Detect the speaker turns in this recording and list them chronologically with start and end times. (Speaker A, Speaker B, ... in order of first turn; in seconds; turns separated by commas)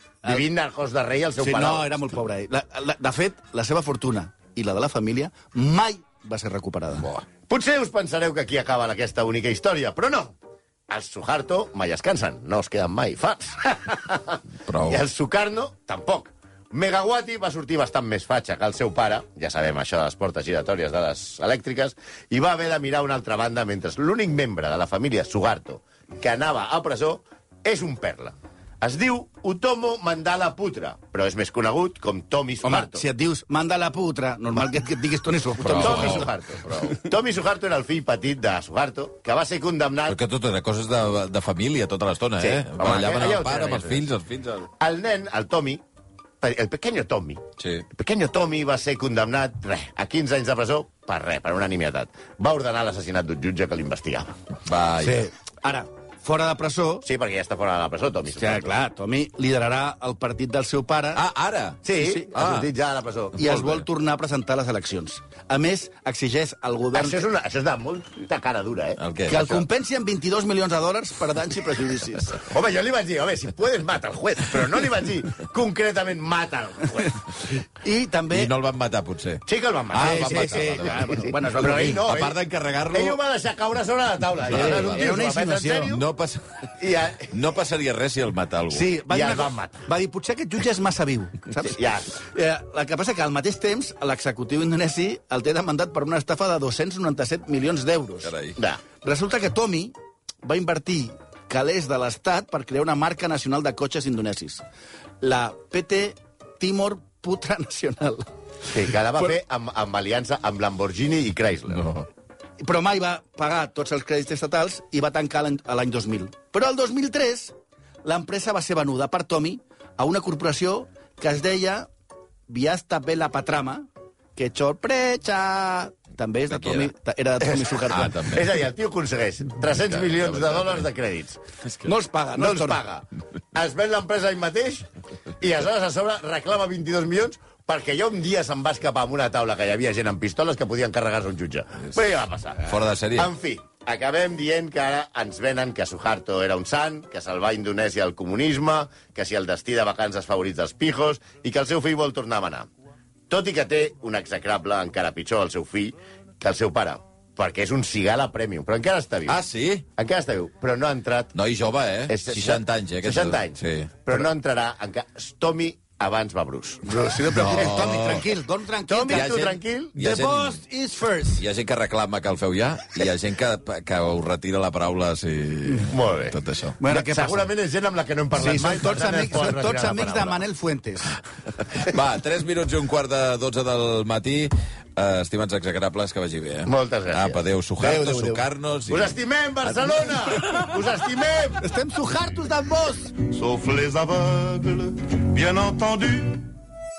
Speaker A: 0.2-1.9, Speaker B: 1.4-7.1, Speaker A: 7.5-10.3, Speaker A: 10.9-33.0, Speaker C: 14.7-15.0, Speaker B: 32.6-36.3, Speaker C: 35.6-37.0, Speaker A: 35.7-40.2, Speaker C: 40.1-44.7, Speaker A: 42.4-44.1, Speaker A: 44.8-45.8, Speaker A: 46.4-54.4, Speaker C: 47.6-47.9, Speaker C: 54.6-55.3, Speaker B: 55.0-57.0, Speaker A: 57.0-58.7, Speaker B: 58.3-61.2, Speaker C: 61.1-62.7, Speaker A: 61.8-63.5, Speaker B: 61.9-62.3, Speaker B: 63.4-67.2, Speaker C: 63.4-63.8, Speaker A: 66.9-69.0, Speaker C: 69.0-69.6, Speaker B: 69.3-72.4, Speaker A: 72.4-77.2, Speaker B: 77.8-78.5, Speaker C: 78.3-83.2, Speaker A: 79.5-82.4, Speaker B: 80.0-82.1, Speaker A: 82.9-86.0, Speaker C: 84.5-85.0, Speaker B: 84.5-85.9, Speaker C: 85.9-86.7, Speaker A: 86.8-87.3, Speaker C: 87.3-88.9, Speaker B: 88.7-98.3, Speaker A: 89.1-89.9, Speaker A: 91.6-92.1, Speaker C: 98.2-98.6, Speaker A: 98.6-98.8, Speaker B: 99.0-104.6, Speaker B: 105.2-109.3, Speaker A: 108.7-112.0, Speaker B: 112.6-121.9, Speaker B: 122.5-128.2, Speaker C: 126.5-126.9, Speaker C: 127.8-128.5, Speaker A: 128.2-131.4, Speaker C: 130.0-130.8, Speaker B: 131.8-132.8, Speaker A: 132.3-134.9, Speaker A: 135.4-152.7, Speaker C: 142.6-143.3, Speaker A: 153.3-159.4, Speaker C: 159.3-159.8, Speaker A: 159.9-161.3, Speaker C: 161.3-164.1, Speaker A: 162.1-166.9, Speaker B: 166.8-171.4, Speaker C: 167.3-168.2, Speaker A: 168.9-169.9, Speaker C: 169.1-170.6, Speaker C: 171.3-176.8, Speaker A: 175.9-180.4, Speaker B: 176.8-177.5, Speaker B: 178.3-181.1, Speaker C: 181.7-189.1, Speaker A: 186.6-187.9, Speaker B: 187.8-188.4, Speaker A: 188.9-191.6, Speaker C: 190.4-190.6, Speaker B: 191.6-193.2, Speaker D: 193.3-196.4